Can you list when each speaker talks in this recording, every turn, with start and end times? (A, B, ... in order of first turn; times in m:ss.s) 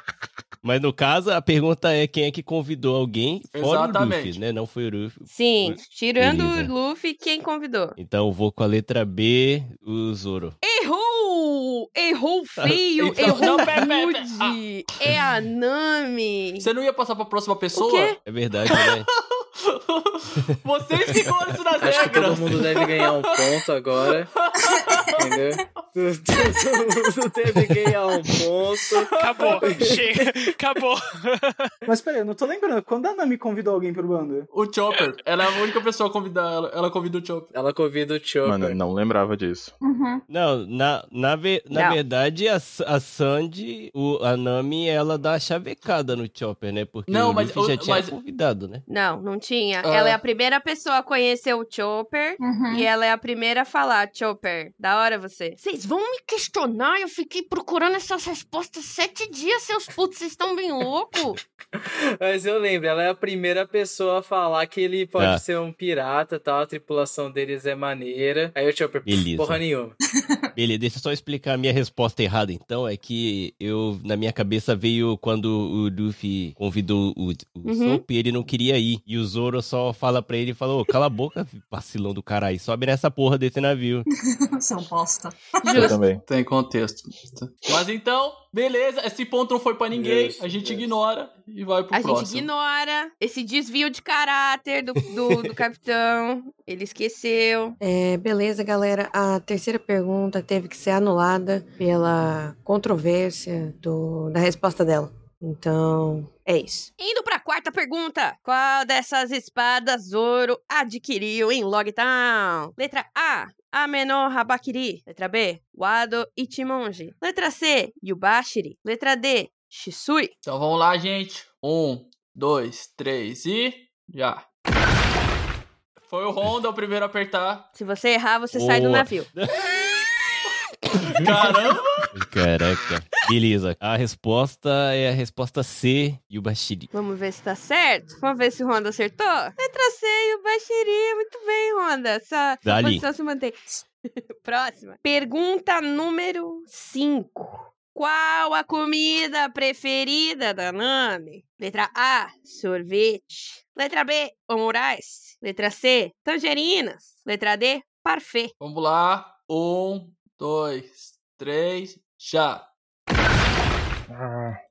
0:00.6-0:06.7 A
0:03.5-0:04.4 B
0:05.3-0:08.0 C
0:08.0-0:10.5 A
0:10.6-0:16.7 C
0:13.0-0:14.6 B
0:13.3-0:13.5 D
0:16.6-0:25.2 B
0:17.7-0:18.2 C
0:18.2-0:19.1 A
0:21.8-0:24.3 E
0:25.2-0:30.5 E
0:29.0-0:29.8 B
0:29.2-0:31.7 D
0:31.8-0:34.5 F
0:34.5-0:37.5 B
0:37.5-0:38.8 E
0:38.4-0:39.7 G
0:39.8-0:40.2 H
0:40.3-0:48.8 A
0:41.7-0:42.0 C
0:47.1-0:48.1 B
0:48.9-1:01.4 C
0:49.8-0:50.2 B
0:52.4-0:52.9 H
1:02.2-1:10.0 E
1:05.2-1:05.4 A
1:09.0-1:09.6 A
1:10.2-1:10.5 H
1:10.6-1:24.0 A
1:17.6-1:18.0 C
1:24.5-1:25.9 H
1:25.6-1:26.0 C
1:25.7-1:26.2 G
1:26.2-1:32.5 B
1:29.9-1:30.9 E
1:31.9-1:37.8 C
1:37.8-1:46.9 I
1:47.0-2:00.3 C
2:00.4-2:04.4 B
2:06.0-2:07.7 B
2:07.7-2:09.3 C
2:08.5-2:09.6 A
2:10.9-2:11.3 A
2:11.0-2:12.1 B
2:12.1-2:16.9 A
2:16.9-2:23.7 C
2:22.6-2:23.0 A
2:24.4-2:38.5 C
2:38.6-2:42.7 B
2:44.1-2:44.6 G